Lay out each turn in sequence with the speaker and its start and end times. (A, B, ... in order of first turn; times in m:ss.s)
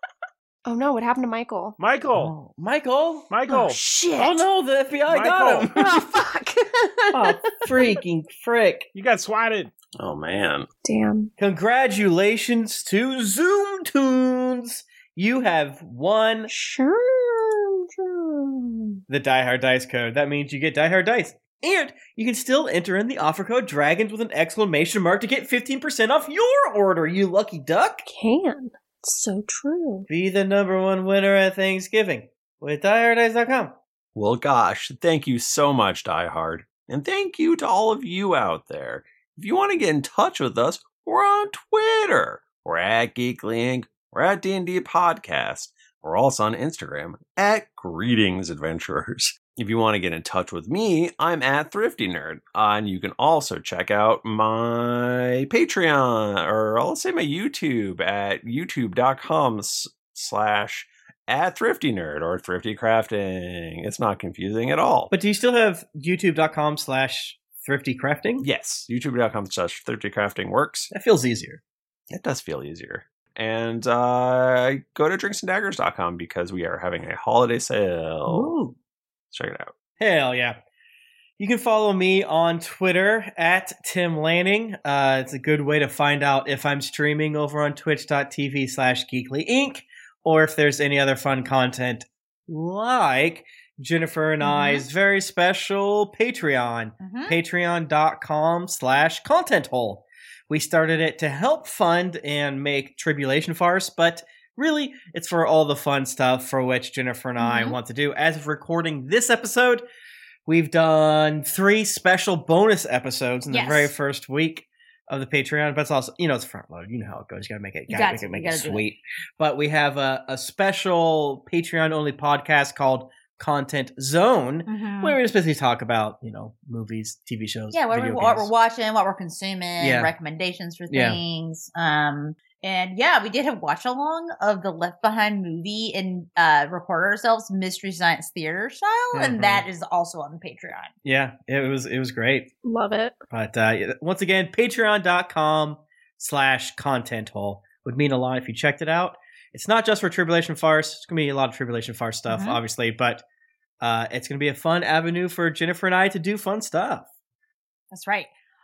0:00.7-0:01.8 A
0:01.8-0:02.3 B
0:02.1-0:03.3 C
0:03.3-0:03.8 B
0:03.5-0:04.5 A
0:04.2-0:06.0 C
0:05.1-0:05.7 B
0:05.7-0:07.8 A
0:07.1-0:08.9 C
0:08.9-0:09.7 B
0:10.0-0:10.7 D
0:10.8-0:11.3 A
0:11.4-0:16.5 C
0:16.5-0:19.0 A
0:19.1-0:28.0 C
0:28.1-0:30.1 A
0:30.1-0:33.8 C
0:34.2-1:05.1 D
1:05.1-1:08.5 C
1:08.4-1:10.9 D
1:10.9-1:11.6 C
1:12.1-1:18.5 D
1:18.3-1:18.8 C
1:19.3-1:19.7 D
1:20.0-1:20.6 C
1:21.4-1:49.8 C
1:34.4-1:34.8 E
1:37.0-1:37.4 E
1:47.4-1:47.8 E
1:50.5-2:08.5 C
1:53.5-1:53.9 E
1:57.9-1:58.8 E
2:04.7-2:05.2 E
2:07.7-2:20.9 E
2:09.8-2:10.1 C
2:10.9-2:11.2 C
2:19.1-2:19.7 C
2:21.0-2:22.5 C
2:22.6-2:23.2 A
2:23.3-2:33.2 C
2:32.3-2:32.6 E
2:33.8-2:37.1 C
2:37.9-2:38.3 E